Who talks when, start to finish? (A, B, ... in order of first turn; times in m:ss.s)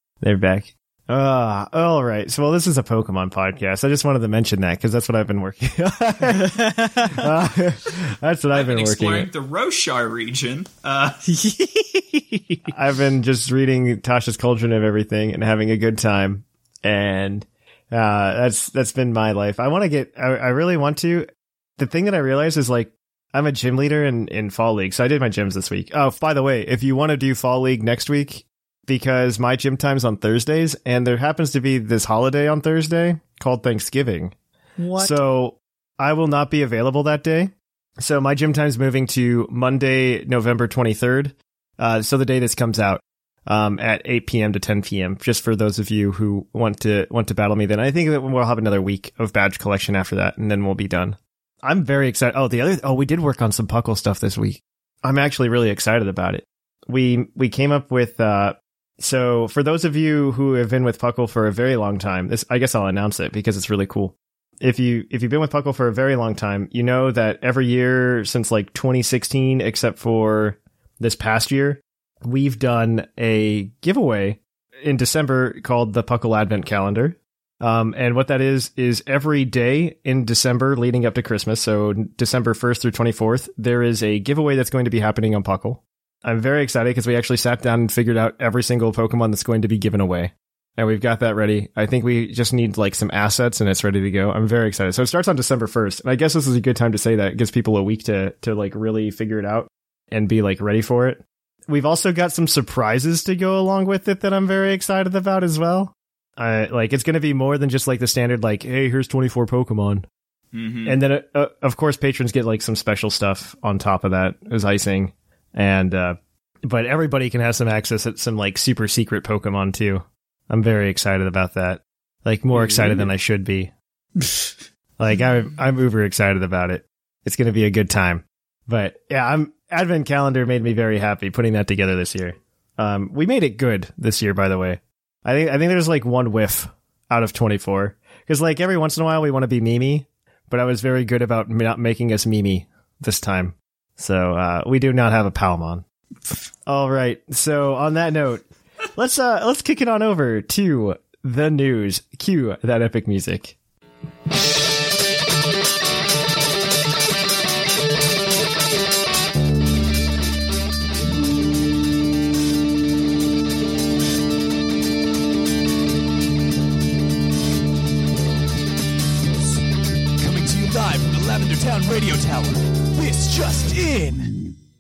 0:00.2-0:09.3 A
0:06.5-0:07.2 B
0:08.5-0:11.2 C
0:11.3-0:12.6 B
0:12.7-0:34.3 A
0:34.8-0:35.2 B
0:35.0-1:50.1 A
1:50.5-1:51.0 C
1:50.8-2:03.7 A
2:05.0-2:25.8 A
2:26.7-2:33.6 A
2:50.2-2:54.3 D